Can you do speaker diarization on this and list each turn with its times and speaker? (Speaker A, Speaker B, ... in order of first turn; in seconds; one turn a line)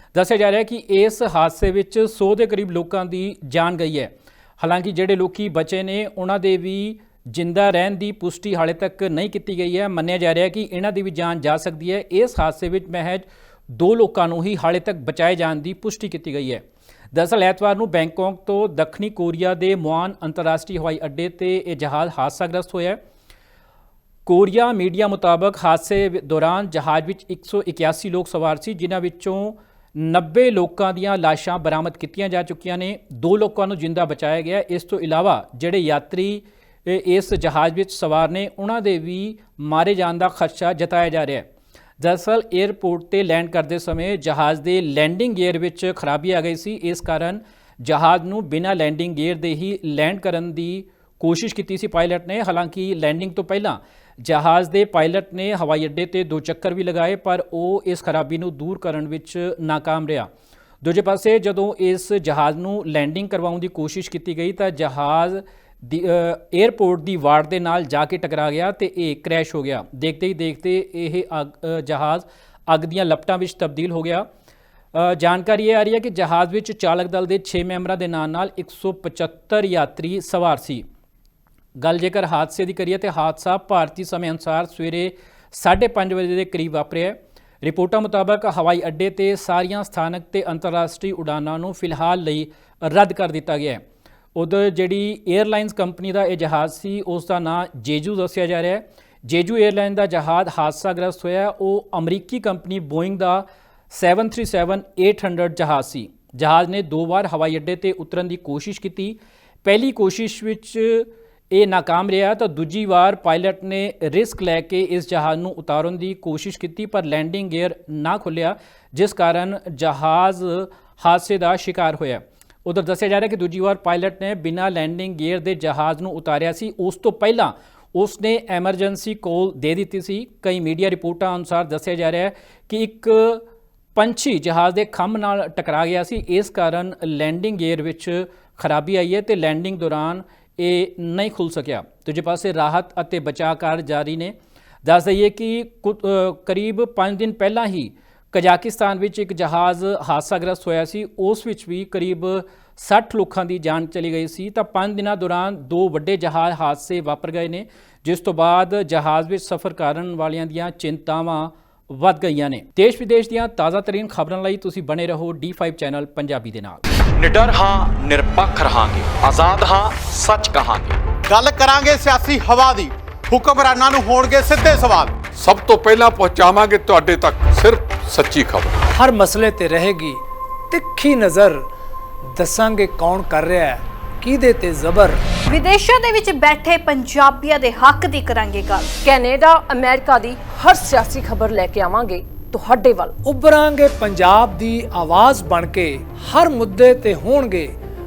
Speaker A: 0.1-23.0
Speaker A: 24.3-41.5
Speaker A: 42.0-60.3
Speaker A: 60.8-74.3
Speaker A: 74.9-80.8
Speaker A: 81.8-93.8
Speaker A: 94.3-133.4
Speaker A: 134.0-166.8
Speaker B: 167.2-171.0
Speaker C: 171.3-175.2
Speaker D: 175.3-178.7
Speaker E: 178.9-181.6
Speaker E: 182.3-185.2
Speaker F: 185.5-188.9
Speaker G: 189.0-193.2
Speaker E: 193.2-197.7